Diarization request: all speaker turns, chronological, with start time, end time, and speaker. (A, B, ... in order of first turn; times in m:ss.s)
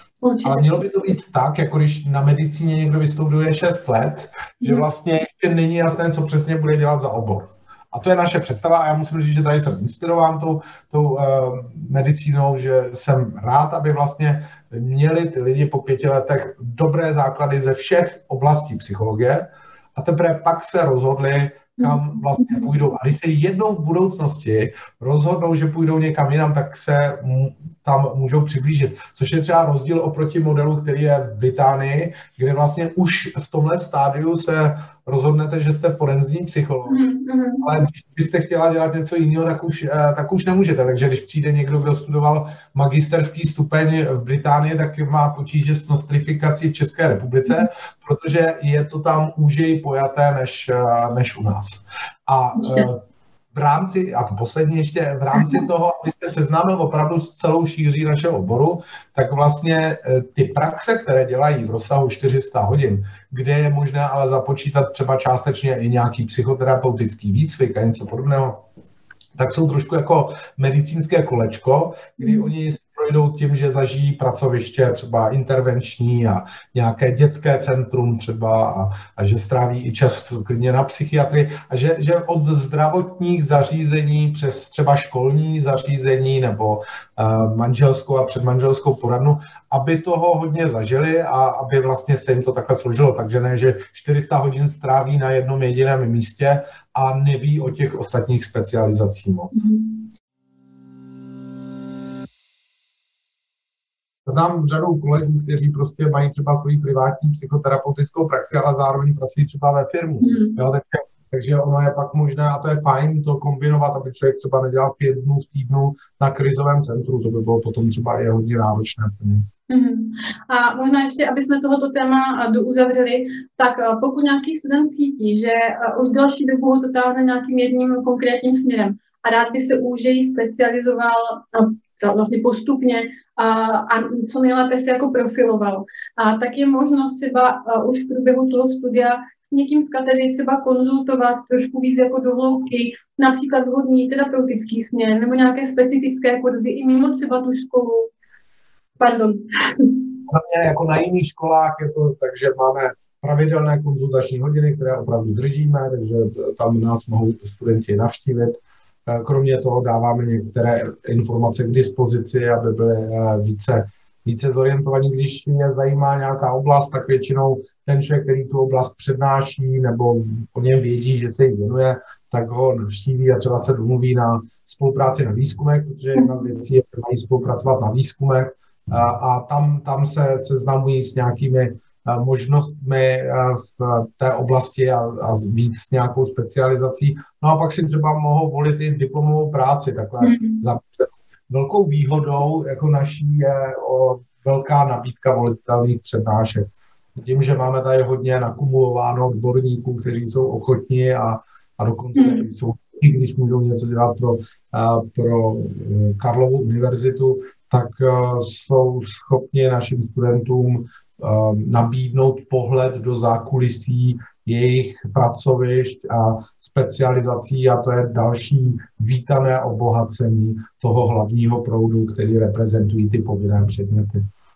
0:00.2-0:00.7 A
0:00.4-0:37.0 B
0:21.8-0:22.7 A
0:36.9-0:37.6 A
0:37.6-0:53.0 B
0:52.6-0:52.9 A
0:53.5-1:08.6 B
0:55.3-0:55.6 A
1:09.4-1:39.7 B
1:12.2-1:12.5 A
1:39.5-1:40.0 A
1:44.2-1:59.5 B
1:50.2-1:50.6 A
1:59.7-2:28.1 A
2:29.0-2:30.0 A
2:30.3-3:44.2 B
2:56.1-2:56.4 A
3:10.2-3:10.6 A
3:22.2-3:22.4 A